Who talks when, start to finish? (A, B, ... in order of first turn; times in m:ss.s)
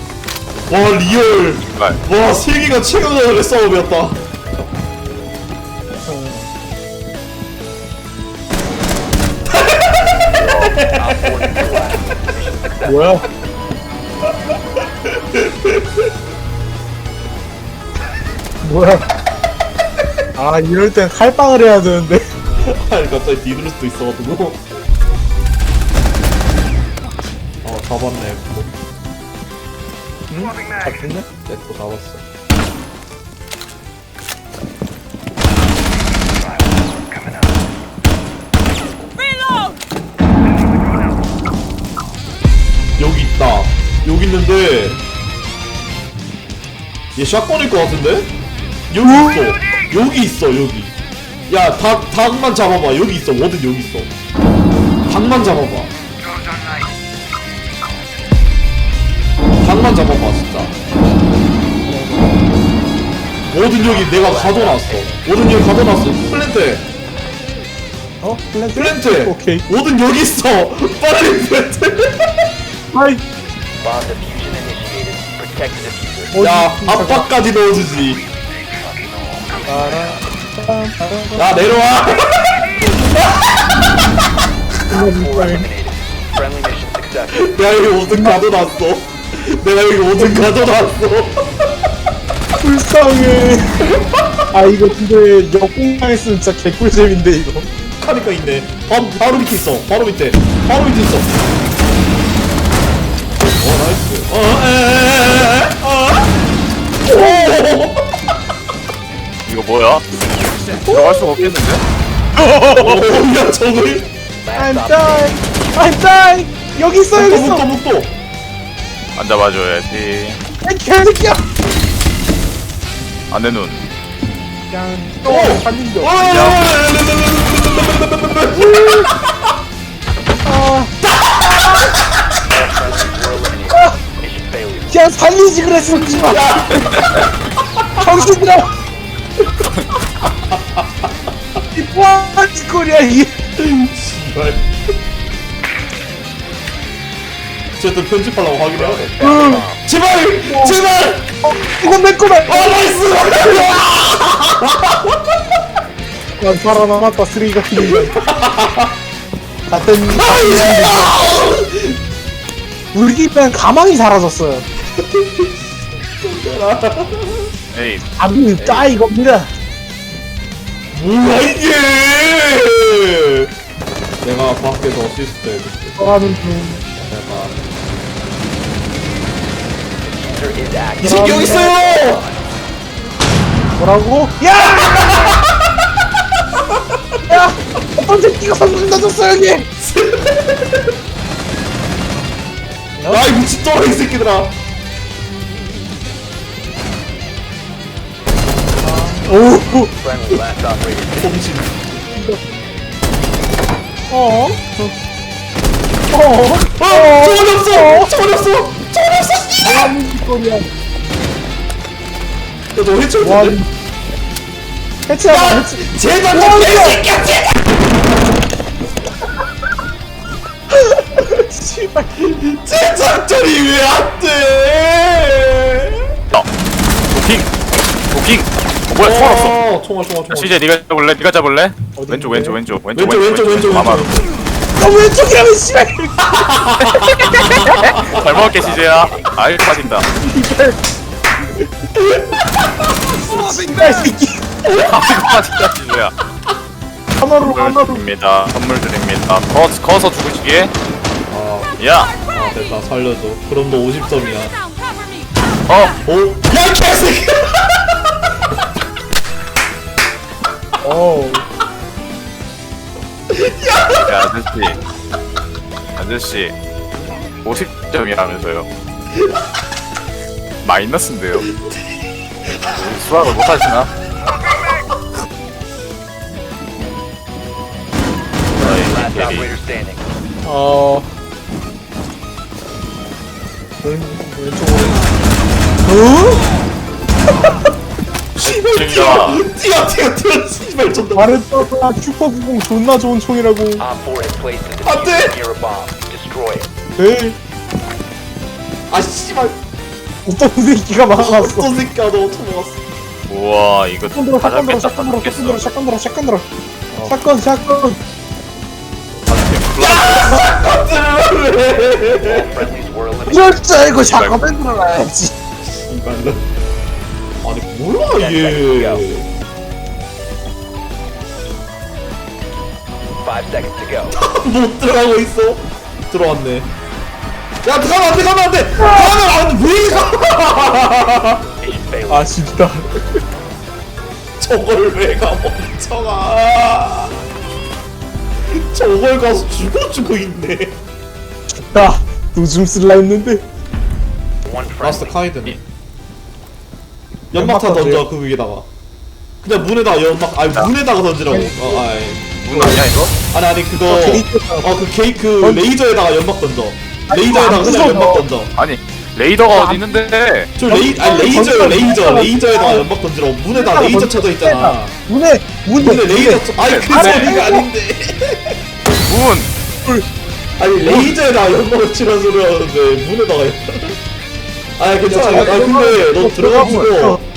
0:00.7-0:04.2 A
0:01.7-0:02.0 B
0:06.1-0:06.5 C
0:09.5-0:09.9 A
0:10.4-0:10.7 B
0:10.5-0:11.8 A
0:10.9-0:13.1 D
0:12.8-0:13.2 C
0:15.1-0:16.1 A
0:18.6-0:19.1 C
0:20.4-0:22.2 C
0:22.6-0:24.6 A
0:27.6-0:28.7 A
0:30.3-0:31.3 C
0:31.5-0:32.2 A
0:43.0-0:45.0 A
0:47.2-0:48.3 A
0:48.9-0:51.0 A
0:51.5-0:54.1 A
0:55.1-0:55.9 A
0:59.6-1:00.7 A
1:01.8-1:02.6 C
1:03.5-1:06.9 A
1:03.8-1:05.2 D
1:08.2-1:09.6 C
1:08.8-1:12.3 A
1:12.9-1:13.2 C
1:13.8-1:16.3 D
1:16.3-1:17.3 C
1:16.4-1:18.2 A
1:18.8-1:20.2 D
1:19.7-1:21.6 C
1:21.4-1:23.7 A
1:24.9-1:25.7 C
1:25.0-1:27.8 D
1:27.3-1:31.7 A
1:28.1-1:28.4 C
1:30.2-1:30.5 C
1:32.6-1:33.6 C
1:33.9-1:34.4 A
1:34.5-1:37.7 C
1:38.0-1:41.4 A
1:43.5-1:46.3 A
1:47.0-1:48.0 A
1:47.1-1:47.6 C
1:49.5-1:50.0 B
1:50.8-1:51.8 B
1:50.9-1:51.6 C
1:52.4-1:53.1 C
1:52.8-1:54.1 A
1:54.4-1:55.5 D
1:54.6-1:57.7 C
1:57.1-1:58.1 A
1:59.2-2:00.4 B
2:00.6-2:01.4 C
2:03.3-2:03.8 B
2:04.7-2:06.6 C
2:05.3-2:09.1 A
2:06.2-2:06.5 B
2:10.4-2:10.9 C
2:11.0-2:11.9 A
2:12.5-2:15.0 D
2:14.9-2:16.5 C
2:16.2-2:17.2 A
2:17.8-2:18.1 A
2:18.0-2:18.7 C
2:20.3-2:21.6 A
2:21.8-2:23.3 C
2:23.6-2:24.7 A
2:27.8-2:29.2 A
2:28.7-2:29.8 D
2:29.2-2:29.7 C
2:29.8-2:31.3 A
2:30.4-2:30.8 C
2:31.5-2:32.7 C
2:32.4-2:35.2 A
2:32.6-2:33.4 D
2:36.4-2:38.2 C
2:37.8-2:38.9 A
2:39.7-2:41.2 C
2:40.1-2:42.0 A
2:42.9-2:44.7 C
2:45.0-2:45.6 A
2:46.2-2:47.5 A
2:47.7-2:48.0 B
2:48.2-2:49.5 C
2:48.6-2:48.9 D
2:50.9-2:53.5 A
2:54.2-2:56.0 A
2:56.0-2:56.8 C
2:57.0-2:57.6 A
3:00.0-3:02.4 D
3:01.0-3:02.2 A
3:01.0-3:01.6 C
3:03.8-3:05.1 C
3:04.6-3:05.4 A
3:06.7-3:07.4 A
3:07.3-3:09.7 C
3:09.8-3:10.9 A
3:13.0-3:13.3 C
3:13.1-3:14.5 A
3:18.8-3:19.9 C
3:19.9-3:21.4 D
3:21.2-3:21.9 A
3:22.2-3:22.4 C
3:24.1-3:24.9 C
3:26.1-3:28.1 C
3:26.8-3:29.9 A
3:29.6-3:30.7 C
3:32.7-3:33.6 A
3:33.2-3:33.7 C
3:35.1-3:37.0 C
3:35.3-3:37.9 A
3:40.9-3:42.1 C
3:42.2-3:46.1 A
3:47.1-3:47.5 B
3:48.1-3:49.6 B
3:49.0-3:50.7 A
3:50.3-3:54.1 B
3:52.0-3:52.6 C
3:52.9-3:54.3 A
3:54.8-3:56.3 C
3:56.3-3:58.5 A
3:56.8-4:00.1 B
3:58.3-3:59.4 D
4:00.2-4:00.8 C
4:02.0-4:02.3 A
4:03.2-4:03.9 A
4:03.2-4:04.4 C
4:04.6-4:05.1 A
4:04.7-4:06.1 B
4:07.2-4:08.1 C
4:07.3-4:10.7 B
4:11.3-4:14.5 A
4:11.8-4:12.2 B
4:15.7-4:16.0 B
4:16.0-4:17.8 A
4:20.8-4:21.5 C
4:23.3-4:24.1 A
4:23.9-4:24.8 B
4:26.0-4:26.5 B
4:27.4-4:28.7 B
4:30.6-4:31.5 B
4:31.6-4:32.8 A
4:32.7-4:33.9 B
4:38.5-4:39.5 B
4:38.6-4:40.1 D
4:40.4-4:41.1 C
4:43.8-4:45.0 C
4:45.8-4:46.4 C
4:48.4-4:49.4 B
4:48.4-4:51.6 A
4:51.2-4:53.8 C
4:53.8-4:56.7 D
4:54.8-4:55.4 A
4:57.0-4:57.4 C
4:58.9-4:59.6 A
5:00.3-5:01.7 C
5:01.2-5:02.8 A
5:03.3-5:05.6 B
5:04.1-5:06.5 C
5:07.1-5:08.0 C
5:09.3-5:10.5 B
5:09.8-5:12.7 A
5:11.5-5:13.9 D
5:13.3-5:15.3 C
5:14.0-5:14.4 B
5:15.6-5:16.5 A
5:17.4-5:19.3 A
5:18.1-5:19.1 D
5:23.2-5:24.2 D
5:24.1-5:26.7 A
5:27.6-5:31.4 A
5:28.8-5:29.2 C
5:30.3-5:32.3 D
5:32.1-5:33.0 C
5:34.4-5:37.2 A
5:38.5-5:40.8 A
5:41.7-5:43.4 C
5:44.4-5:45.3 D
5:44.8-5:45.6 A
5:47.3-5:48.7 A
5:47.4-5:48.0 C
5:49.4-5:58.5 A
5:51.3-5:51.9 C
5:52.4-5:53.2 B
5:53.9-5:54.7 C
5:55.4-5:55.7 C
5:57.1-5:58.3 C
5:58.5-6:00.5 B
5:59.5-6:00.0 C
6:00.6-6:05.0 A
6:00.7-6:02.9 C
6:03.5-6:07.7 C
6:05.8-6:08.6 A
6:06.6-6:07.1 B
6:09.1-6:09.5 B
6:10.6-6:14.0 A
6:10.8-6:11.1 C
6:14.8-6:17.2 A
6:15.1-6:17.2 C